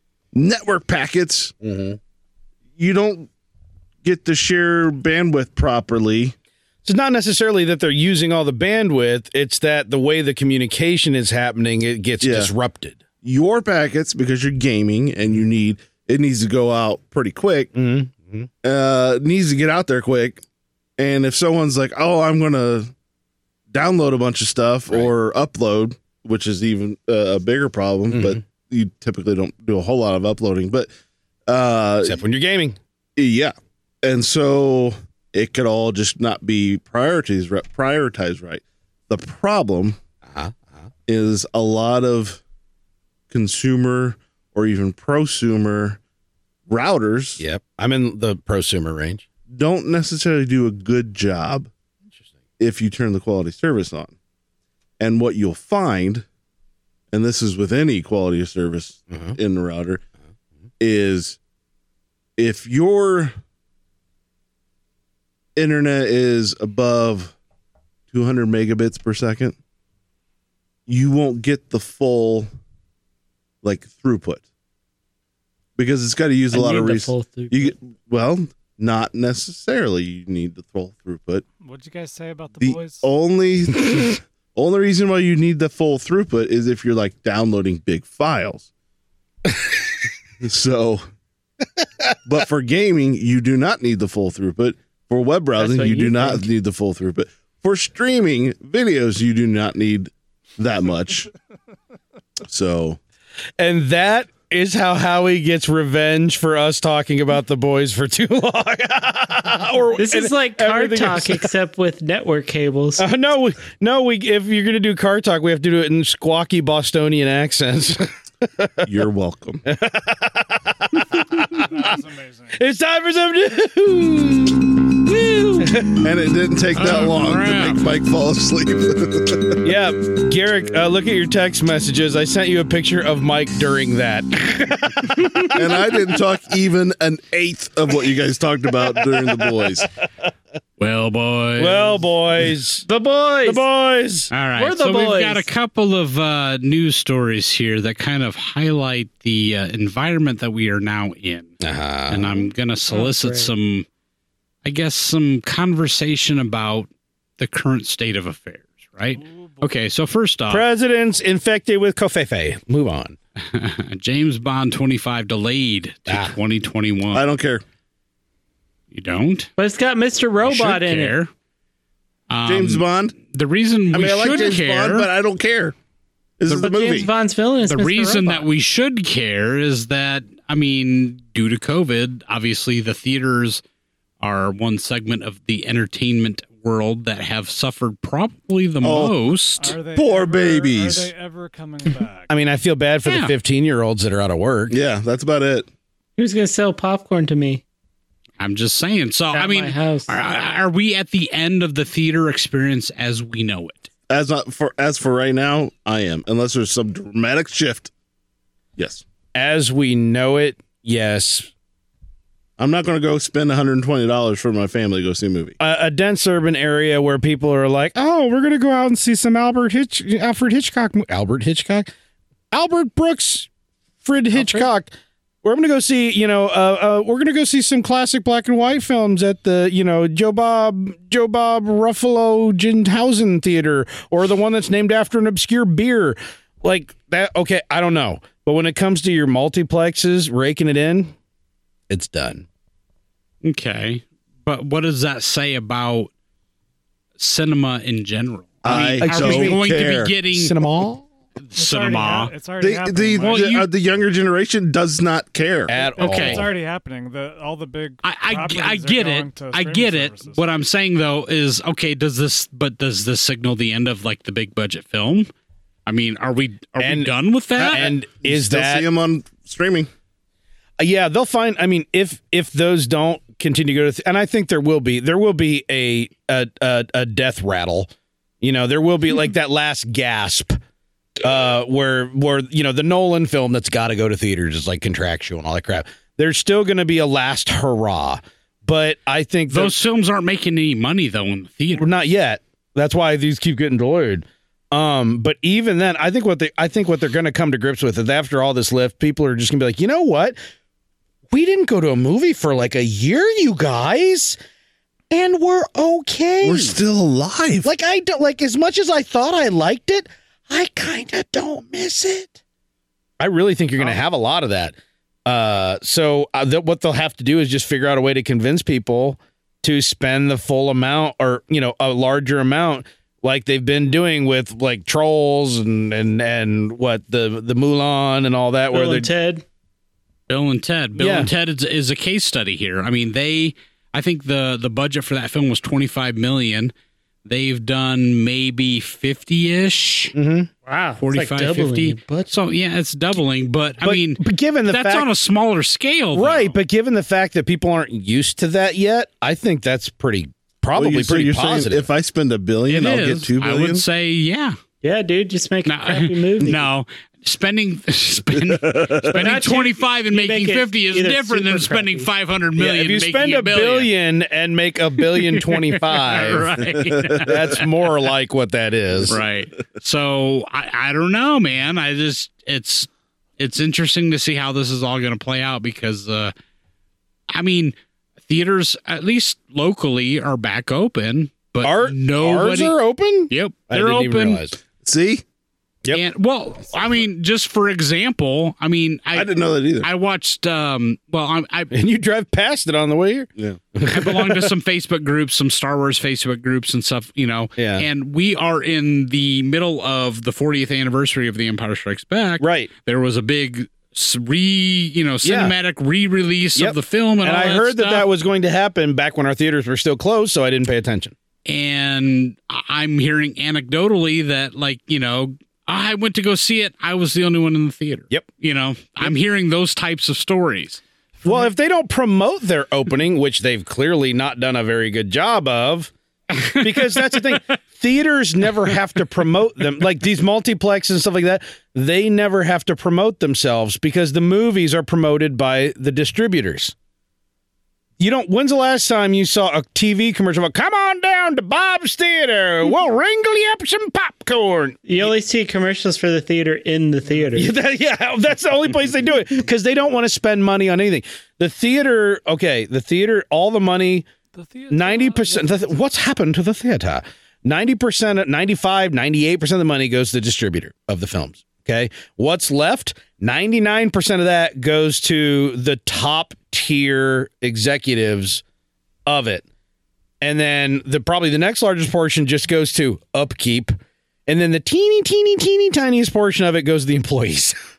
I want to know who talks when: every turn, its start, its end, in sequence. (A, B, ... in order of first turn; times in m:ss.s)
0:00.3-0:01.5 A
0:01.6-0:02.0 B
0:02.8-0:03.3 A
0:04.0-0:06.3 A
0:06.8-0:13.0 B
0:12.2-0:12.5 A
0:13.2-0:17.7 A
0:17.7-0:18.5 B
0:18.6-0:20.4 A
0:21.0-0:22.9 A
0:23.7-0:30.9 A
0:28.1-0:28.4 B
0:31.5-0:32.2 A
0:32.0-0:32.8 B
0:33.2-0:40.0 A
0:40.2-0:40.9 B
0:41.1-0:42.4 A
0:43.3-0:46.0 A
0:46.7-0:47.4 A
0:47.4-0:49.2 B
0:49.5-0:51.7 A
0:52.6-0:54.1 A
0:55.0-0:56.2 A
0:57.1-1:00.0 A
0:59.1-0:59.4 B
1:00.8-1:01.4 A
1:02.4-1:03.3 A
1:05.6-1:07.3 A
1:08.1-1:09.6 A
1:10.9-1:12.5 A
1:13.6-1:14.4 A
1:15.8-1:21.4 A
1:16.5-1:17.7 C
1:21.6-1:23.1 D
1:22.6-1:28.7 A
1:30.4-1:31.0 A
1:32.2-1:41.3 A
1:35.6-1:36.5 C
1:42.5-1:43.0 A
1:43.6-1:51.5 B
1:50.0-1:53.0 C
1:53.0-1:58.9 B
1:58.8-1:59.6 A
1:59.6-2:02.0 B
2:01.5-2:02.6 D
2:02.5-2:06.0 B
2:06.0-2:09.6 A
2:06.7-2:07.8 E
2:09.6-2:16.1 B
2:15.5-2:19.9 A
2:19.0-2:20.3 B
2:20.8-2:22.0 E
2:21.6-2:22.8 B
2:22.8-2:23.6 C
2:23.4-2:24.3 B
2:24.3-2:31.6 E
2:24.5-2:25.5 C
2:31.6-2:32.4 B
2:32.1-2:33.8 E
2:32.9-2:33.5 C
2:34.6-2:40.6 E
2:39.2-2:39.6 D
2:40.5-2:43.2 B
2:43.4-2:47.2 E
2:46.1-2:46.4 B
2:47.1-2:47.6 A
2:48.9-2:49.5 E
2:49.6-2:51.1 C
2:50.4-2:51.3 E
2:52.3-2:55.1 E
2:52.4-2:53.2 A
2:53.9-2:55.7 A
2:56.4-2:57.1 A
2:56.5-2:56.9 E
2:56.5-2:58.5 C
2:57.6-3:03.6 E
3:04.2-3:09.7 E
3:08.8-3:09.1 A
3:09.6-3:12.3 D
3:09.9-3:11.1 A
3:12.3-3:14.8 B
3:13.0-3:13.3 E
3:14.7-3:15.7 A
3:16.2-3:17.6 C
3:18.4-3:23.9 E
3:19.3-3:20.1 C
3:24.1-3:27.9 A
3:28.8-3:29.0 A
3:29.3-3:31.5 B
3:32.6-3:35.6 A
3:35.6-3:41.9 B
3:42.5-3:43.5 B
3:44.0-3:44.9 B
3:45.4-4:01.1 B
4:01.9-4:02.4 B
4:03.4-4:06.1 E
4:07.2-4:10.5 E
4:08.6-4:10.1 A
4:08.7-4:09.6 B
4:10.3-4:11.0 B
4:11.4-4:12.3 E
4:11.5-4:13.6 D
4:12.6-4:15.7 A
4:13.2-4:13.7 E
4:15.7-4:16.5 B
4:15.7-4:20.4 D
4:16.0-4:16.5 E
4:18.0-4:25.3 E
4:25.8-4:27.9 E
4:26.8-4:28.8 B
4:27.6-4:29.9 A
4:30.8-4:40.6 B
4:41.2-4:49.7 B
4:49.5-4:51.9 E
4:51.8-5:00.4 B
5:01.3-5:04.4 B
5:05.1-5:06.8 B
5:06.4-5:07.7 A
5:07.6-5:12.4 B
5:13.2-5:29.1 B
5:28.7-5:29.4 C
5:30.3-5:36.7 E
5:31.0-5:31.3 B
5:37.2-5:40.1 E
5:40.1-5:40.5 B
5:40.6-5:42.3 C
5:41.0-5:46.5 E
5:43.8-5:45.1 B
5:46.1-5:51.9 B
5:50.7-5:53.8 A
5:52.7-5:54.6 E
5:54.8-5:56.6 C
5:55.6-6:03.9 E
5:58.4-5:59.2 A
5:59.1-6:02.1 C
6:02.6-6:06.6 B
6:05.1-6:07.9 E
6:06.8-6:07.3 A
6:07.2-6:09.2 B
6:09.1-6:16.3 E
6:17.3-6:17.7 E
6:18.3-6:22.7 E
6:21.6-6:24.6 B
6:23.3-6:24.5 E
6:24.8-6:25.2 A
6:25.9-6:31.7 E
6:29.1-6:29.9 A
6:31.7-6:34.5 B
6:33.9-6:48.1 E
6:37.6-6:37.9 B
6:42.4-6:42.7 B
6:45.2-6:45.5 B
6:46.6-6:51.1 B
6:51.4-7:00.8 E
7:01.2-7:01.4 D
7:01.2-7:05.9 B
7:06.3-7:07.4 E
7:06.4-7:16.7 B
7:18.0-7:25.1 B
7:24.8-7:27.5 C
7:27.3-7:34.1 B
7:34.3-7:35.8 D
7:34.7-7:48.4 B
7:49.0-7:49.4 B
7:50.2-7:57.6 B